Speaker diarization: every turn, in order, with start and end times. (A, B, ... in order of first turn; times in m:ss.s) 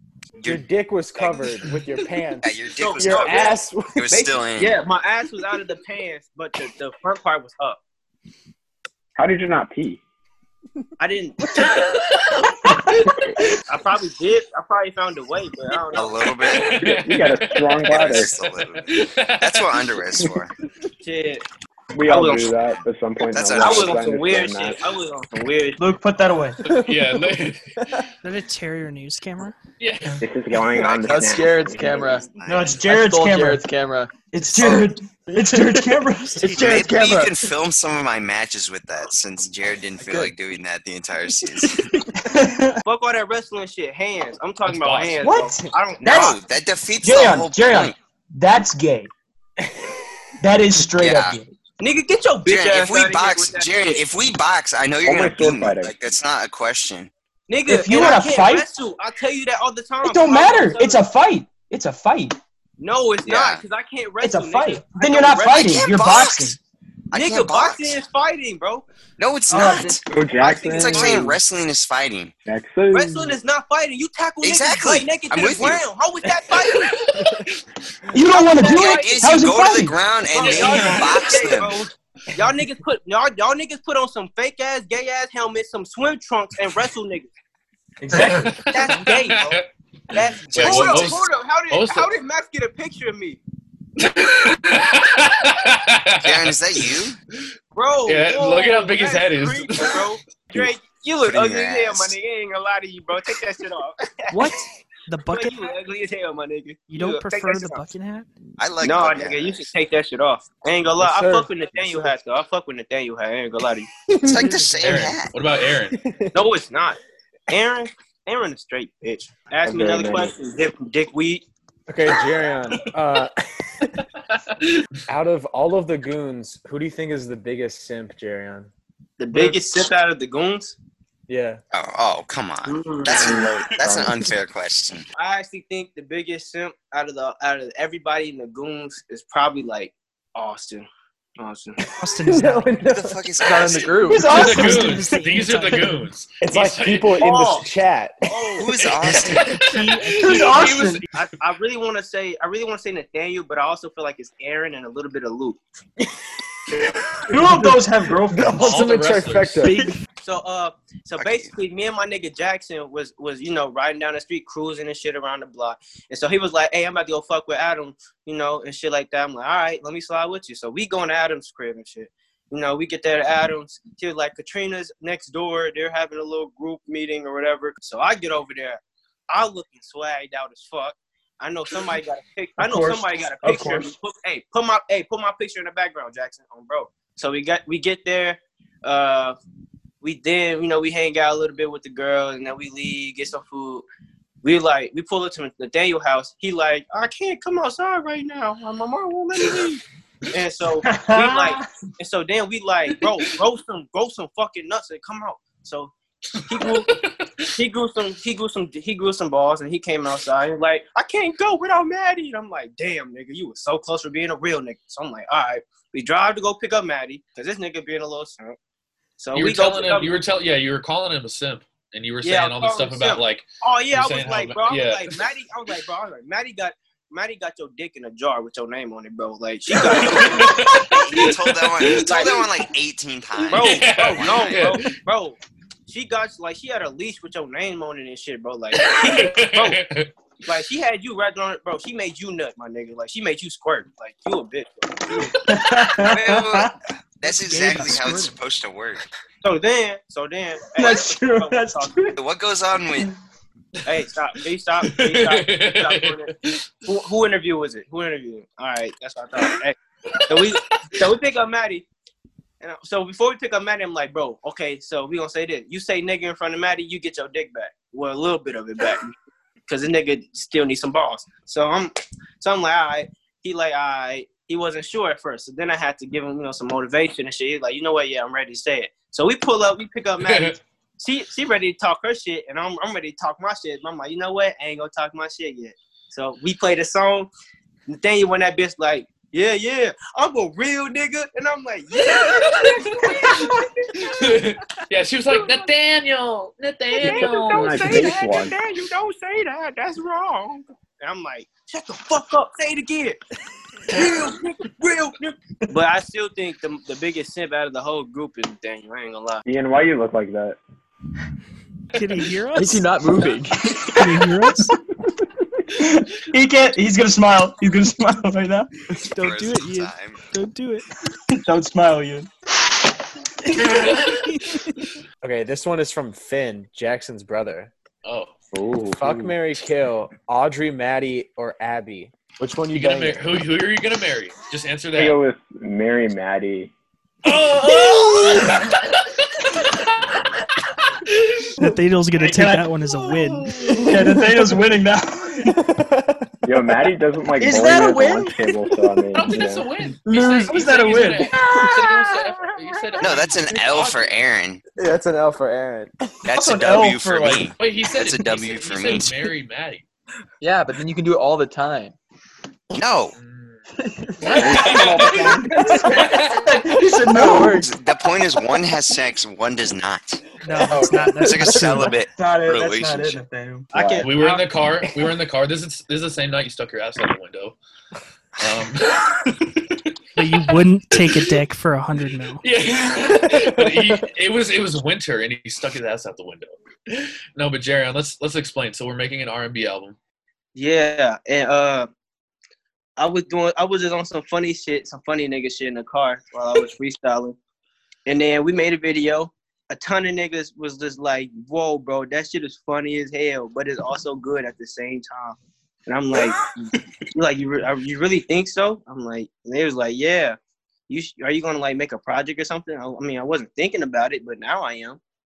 0:00.4-0:04.1 A
0:02.4-0:04.8 B
0:02.8-0:03.6 C
0:04.1-0:07.8 C
0:09.2-0:10.0 D
0:11.0-0:11.5 C
0:11.7-0:12.8 E
0:13.7-0:16.2 C
0:15.9-0:16.8 B
0:16.4-0:19.9 E
0:16.8-0:18.4 D
0:17.8-0:20.5 B
0:21.0-0:21.4 C
0:22.0-0:24.8 D
0:22.0-0:22.5 C
0:23.3-0:24.0 B
0:23.6-0:25.9 C
0:25.8-0:26.6 F
0:26.6-0:28.0 E
0:26.7-0:27.4 A
0:28.2-0:29.6 G
0:29.8-0:30.9 E
0:30.2-0:32.5 D
0:31.0-0:32.3 H
0:32.0-0:32.9 B
0:32.5-0:33.6 F
0:32.9-0:34.9 H
0:34.3-0:37.4 F
0:36.4-0:42.1 B
0:40.0-0:40.3 H
0:42.1-0:42.8 F
0:42.8-0:46.4 C
0:44.7-0:45.2 E
0:45.2-0:46.4 F
0:46.0-0:48.0 B
0:47.0-0:49.1 F
0:50.4-0:51.5 F
0:50.9-0:51.4 B
0:51.8-0:54.0 C
0:52.5-0:57.1 B
0:55.0-0:55.9 D
0:57.5-1:01.0 C
0:57.7-0:58.7 F
1:00.0-1:02.4 F
1:02.8-1:05.9 C
1:03.3-1:03.6 B
1:04.2-1:06.6 F
1:05.6-1:06.6 B
1:07.1-1:08.0 B
1:07.1-1:08.8 C
1:09.2-1:12.3 B
1:09.5-1:10.0 F
1:10.1-1:11.4 D
1:10.9-1:11.3 C
1:12.5-1:13.4 D
1:12.9-1:17.0 C
1:14.4-1:15.8 B
1:16.8-1:17.5 E
1:18.1-1:20.7 F
1:18.3-1:19.3 C
1:18.6-1:21.8 B
1:20.3-1:27.3 C
1:20.5-1:21.5 E
1:28.0-1:28.7 F
1:28.5-1:29.7 E
1:28.6-1:33.4 C
1:30.5-1:32.1 E
1:34.0-1:37.1 E
1:36.2-1:37.2 B
1:37.8-1:44.5 C
1:38.1-1:40.1 E
1:41.2-1:42.2 B
1:44.3-1:45.7 G
1:45.3-1:47.8 C
1:46.9-1:48.3 G
1:48.6-1:49.7 B
1:48.8-1:53.9 C
1:51.0-1:52.1 A
1:54.1-1:54.9 A
1:54.2-1:55.3 B
1:54.8-1:56.0 E
1:55.9-1:56.3 A
1:56.3-2:01.4 C
1:59.6-2:00.3 D
2:01.9-2:04.1 A
2:05.1-2:08.7 A
2:09.2-2:10.8 C
2:09.3-2:09.6 A
2:11.3-2:11.6 A
2:11.7-2:15.1 B
2:12.7-2:13.5 C
2:13.2-2:14.1 D
2:15.2-2:20.9 C
2:21.4-2:21.8 C
2:22.0-2:22.8 G
2:22.3-2:23.3 A
2:22.8-2:24.2 B
2:23.4-2:24.4 H
2:24.0-2:25.2 F
2:24.2-2:26.0 G
2:24.3-2:27.4 E
2:26.4-2:28.6 A
2:27.2-2:27.7 C
2:28.3-2:28.7 C
2:28.6-2:29.6 B
2:29.0-2:31.1 E
2:29.5-2:30.8 G
2:30.2-2:31.1 F
2:31.1-2:35.6 C
2:36.7-2:39.8 A
2:37.3-2:38.9 F
2:38.6-2:39.7 E
2:39.6-2:39.9 F
2:40.2-3:09.4 C
2:41.2-2:41.5 B
3:02.6-3:04.0 F
3:10.0-3:13.9 C
3:14.4-3:19.8 C
3:20.3-3:25.9 C
3:20.8-3:21.7 F
3:26.4-3:26.9 C
3:26.5-3:27.5 E
3:27.5-3:38.6 C
3:39.2-3:40.1 C
3:39.3-3:45.2 E
3:42.2-3:50.7 C
3:49.8-3:52.5 E
3:49.9-3:54.7 B
3:52.0-3:52.3 C
3:53.4-3:54.8 E
3:53.5-3:59.8 C
3:58.8-4:00.1 E
4:00.5-4:05.4 C
4:05.4-4:06.7 F
4:06.0-4:09.0 B
4:07.3-4:08.4 G
4:09.4-4:12.0 C
4:10.8-4:12.2 F
4:12.2-4:13.2 B
4:13.8-4:16.3 C
4:14.8-4:16.6 E
4:16.8-4:21.9 C
4:20.1-4:20.8 E
4:22.6-4:29.1 C
4:29.7-4:47.3 C
4:40.2-4:40.6 E
4:47.9-4:54.2 C
4:52.0-4:58.3 E
4:57.0-5:03.2 C
4:57.0-4:58.6 D
5:03.9-5:09.5 C
5:09.5-5:10.6 D
5:11.9-5:12.9 G
5:12.6-5:14.2 H
5:13.9-5:14.7 G
5:15.7-5:18.9 F
5:19.1-5:20.9 G
5:19.1-5:20.2 B
5:21.3-5:22.3 F
5:23.5-5:24.6 G
5:23.6-5:24.6 E
5:25.2-5:27.7 A
5:28.0-5:28.3 E
5:28.5-5:29.4 D
5:28.9-5:33.2 A
5:32.7-5:35.2 E
5:35.0-5:36.7 D
5:37.2-5:40.2 E
5:41.0-5:41.5 E
5:41.6-5:43.7 G
5:42.2-5:42.7 F
5:43.0-5:43.9 E
5:43.8-5:45.6 F
5:45.4-5:46.6 A
5:46.4-5:49.7 D
5:47.4-5:48.5 F
5:49.1-5:54.2 E
5:50.0-5:51.5 F
5:51.3-5:52.9 A
5:53.0-5:54.6 B
5:54.8-5:55.9 A
5:56.2-5:59.2 B
5:56.3-5:57.5 F
5:57.6-5:59.8 E
6:00.4-6:02.0 H
6:02.7-6:03.1 B
6:03.2-6:03.6 E
6:04.2-6:07.6 F
6:04.2-6:04.7 G
6:04.4-6:05.5 D
6:04.4-6:06.6 E
6:05.6-6:05.8 A
6:07.1-6:13.2 B
6:07.2-6:07.7 H
6:10.4-6:12.0 G
6:10.7-6:11.1 F
6:11.4-6:11.9 A
6:12.1-6:13.7 F
6:13.7-6:14.5 C
6:13.7-6:14.1 D
6:14.0-6:17.6 E
6:18.4-6:19.8 E
6:20.2-6:22.4 G
6:20.4-6:21.4 E
6:22.4-6:30.0 E
6:23.1-6:24.0 A
6:30.6-6:31.9 C
6:33.0-6:37.4 C
6:38.1-6:46.5 C
6:47.1-6:50.4 C
6:50.9-6:55.0 C